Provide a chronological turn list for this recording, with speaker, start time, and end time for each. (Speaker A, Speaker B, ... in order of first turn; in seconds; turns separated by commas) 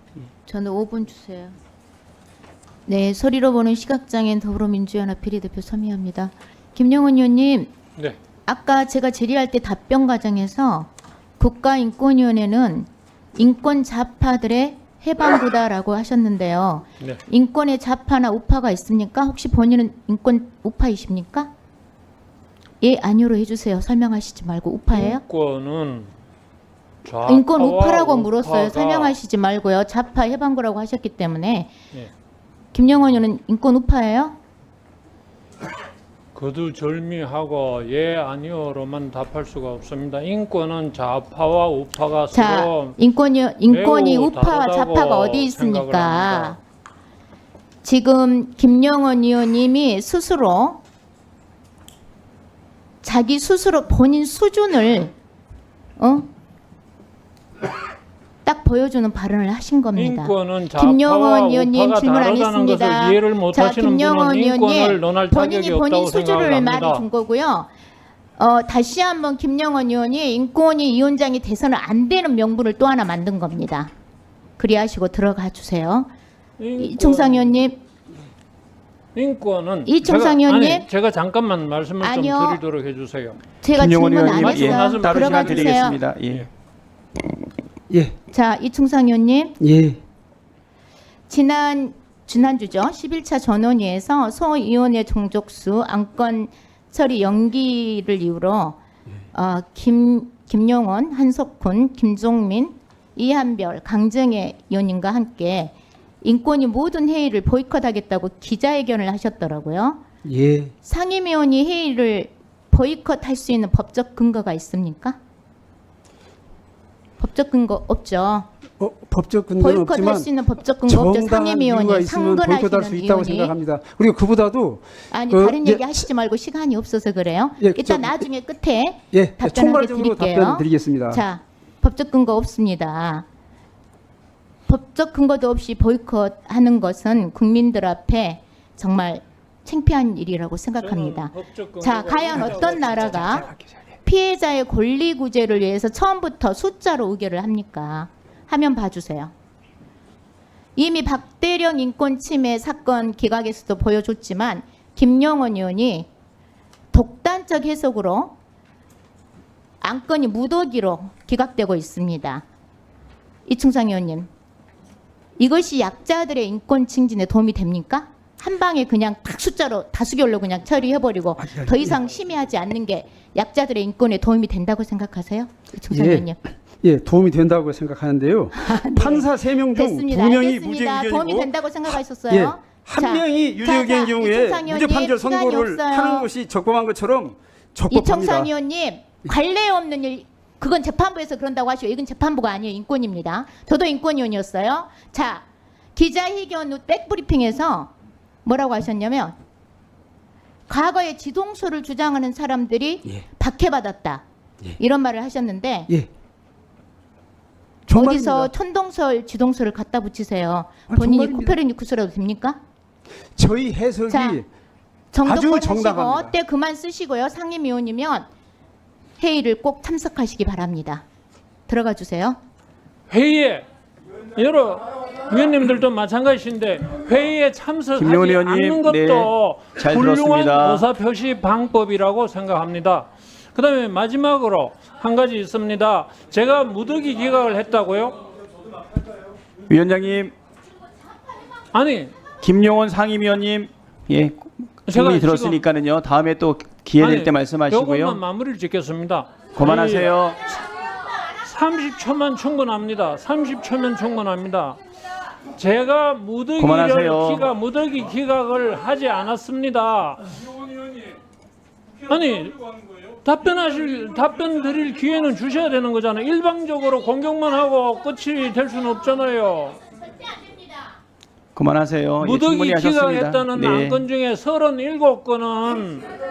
Speaker A: 0.3-1.6, Speaker A: 2.9-7.8, Speaker A: 8.4-21.5, Speaker A: 22.8-25.2, Speaker B: 24.9-26.1, Speaker B: 27.0-29.2, Speaker A: 27.2-31.8, Speaker A: 32.7-34.4, Speaker B: 36.3-43.0, Speaker A: 42.3-46.6, Speaker B: 43.7-46.6, Speaker A: 47.8-50.8, Speaker A: 53.0-55.1, Speaker A: 56.0-56.3, Speaker A: 58.4-67.7, Speaker B: 59.9-67.0, Speaker A: 68.4-73.9, Speaker A: 74.6-76.1, Speaker B: 76.6-77.6, Speaker A: 76.8-77.8, Speaker B: 79.1-83.4, Speaker A: 79.8-80.9, Speaker A: 82.0-82.6, Speaker A: 83.6-86.0, Speaker C: 83.7-86.5, Speaker B: 84.2-86.5, Speaker D: 87.9-88.2, Speaker A: 88.3-89.6, Speaker D: 89.6-90.0, Speaker A: 91.3-98.8, Speaker A: 99.3-110.0, Speaker D: 110.2-110.7, Speaker A: 110.8-115.2, Speaker A: 117.2-118.5, Speaker D: 118.8-120.3, Speaker A: 119.6-123.5, Speaker D: 120.9-126.0, Speaker A: 125.1-133.2, Speaker D: 127.6-128.2, Speaker D: 129.1-131.2, Speaker A: 134.7-143.5, Speaker B: 140.8-143.4, Speaker A: 144.0-149.3, Speaker A: 150.8-156.1, Speaker A: 156.9-158.3, Speaker A: 159.8-162.4, Speaker A: 163.4-164.3, Speaker A: 165.4-176.4, Speaker D: 171.4-172.0, Speaker D: 175.9-181.5, Speaker A: 178.6-186.3, Speaker D: 182.3-188.5, Speaker A: 187.9-197.9, Speaker A: 198.4-199.3, Speaker A: 200.7-204.2, Speaker A: 204.8-205.9, Speaker D: 207.8-208.5, Speaker A: 207.9-212.6, Speaker D: 210.9-211.5, Speaker D: 213.3-214.5, Speaker A: 214.1-214.4, Speaker A: 215.1-218.3, Speaker D: 215.2-216.3, Speaker A: 219.2-221.0, Speaker A: 221.7-222.4, Speaker B: 223.1-223.7, Speaker B: 224.3-238.2, Speaker C: 228.0-230.8, Speaker C: 239.7-240.3, Speaker B: 241.7-242.1, Speaker C: 242.4-248.2, Speaker B: 244.9-245.6, Speaker B: 247.0-250.1, Speaker C: 249.6-250.4, Speaker B: 251.4-254.8, Speaker B: 255.6-260.3, Speaker C: 256.6-257.5, Speaker B: 262.1-262.6, Speaker B: 263.1-269.8, Speaker C: 271.5-274.0, Speaker B: 272.2-276.1